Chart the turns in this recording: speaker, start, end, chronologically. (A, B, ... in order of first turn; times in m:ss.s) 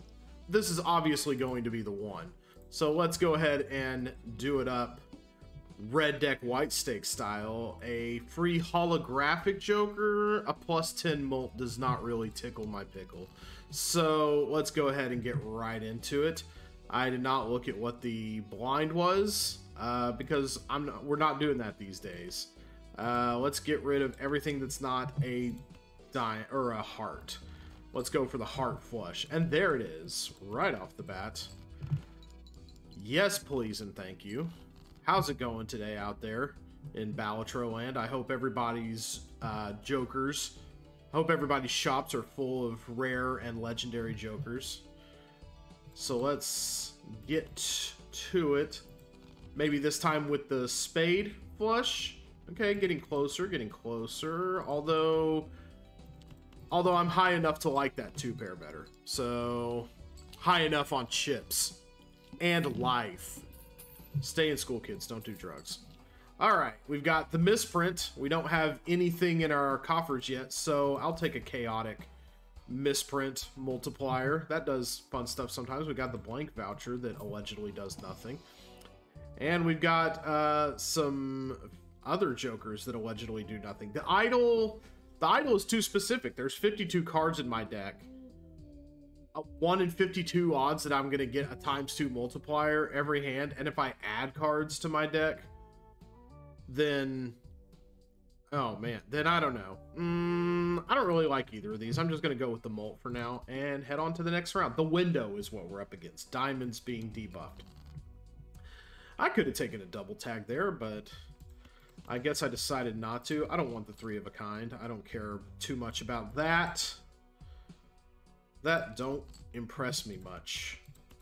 0:00.5-0:05.0 A
0:05.8-0:25.6 A
0:26.1-0:27.4 A
0:27.9-0:31.5 A
0:32.9-0:44.8 A
0:45.9-0:48.8 A
0:49.5-0:55.5 A
0:56.7-1:01.8 A
1:02.4-1:03.4 A
1:04.2-1:05.8 A
1:06.4-1:12.1 A
1:12.7-1:18.4 A
1:19.4-1:28.1 A
1:29.3-1:35.5 A
1:36.7-1:37.4 A
1:38.5-1:47.7 A
1:49.2-1:51.1 A
1:52.1-1:57.0 A
1:58.6-2:00.8 A